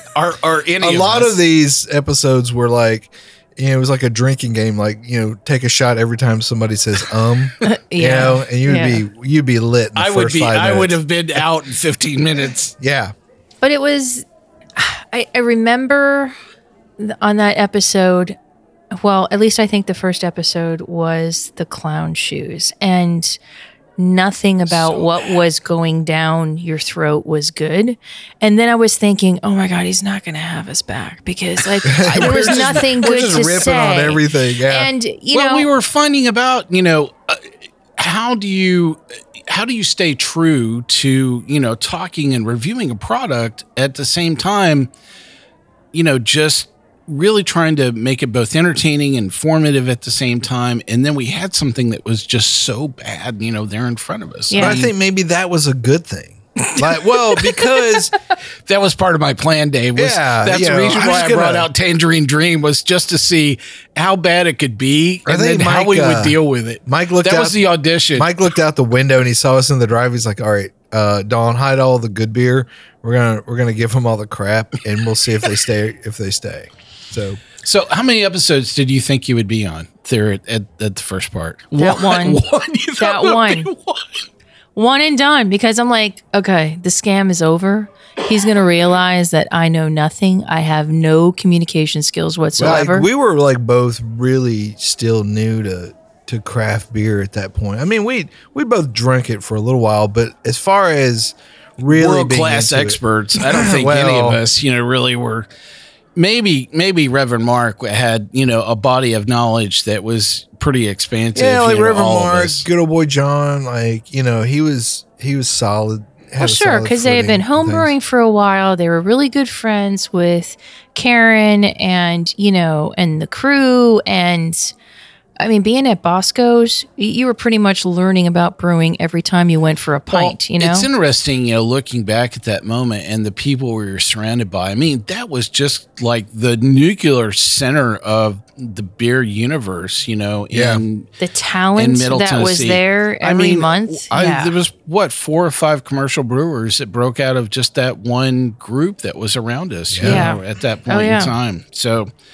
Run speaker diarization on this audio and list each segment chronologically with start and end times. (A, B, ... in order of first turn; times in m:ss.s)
0:00.1-0:01.4 A
0:00.8-0:11.4 B
0:07.6-0:09.0 C
0:10.0-0:12.7 A
0:12.8-0:13.1 B
0:13.6-0:16.4 C
0:17.0-0:18.4 C
0:18.9-0:23.4 C
0:24.0-0:35.7 C
0:24.7-0:25.3 A
0:31.6-0:33.0 A
0:31.8-0:34.9 B
0:35.3-0:44.9 A
0:45.9-0:54.9 A
0:54.5-0:54.9 C
0:54.6-0:58.1 B
0:56.7-0:58.0 C
0:58.7-1:08.3 A
1:00.0-1:01.7 B
1:05.2-1:07.6 B
1:08.1-1:17.4 B
1:17.6-1:24.2 A
1:21.8-1:22.4 C
1:23.0-1:23.7 C
1:24.7-1:33.1 C
1:32.6-1:44.4 B
1:41.9-1:45.5 A
1:46.2-1:52.6 A
1:51.3-1:57.9 B
1:56.4-2:04.7 C
2:05.4-2:10.9 C
2:10.1-2:21.1 A
2:20.5-2:20.8 B
2:21.2-2:24.5 C
2:21.8-2:32.1 A
2:29.9-2:30.3 B
2:30.0-2:31.3 C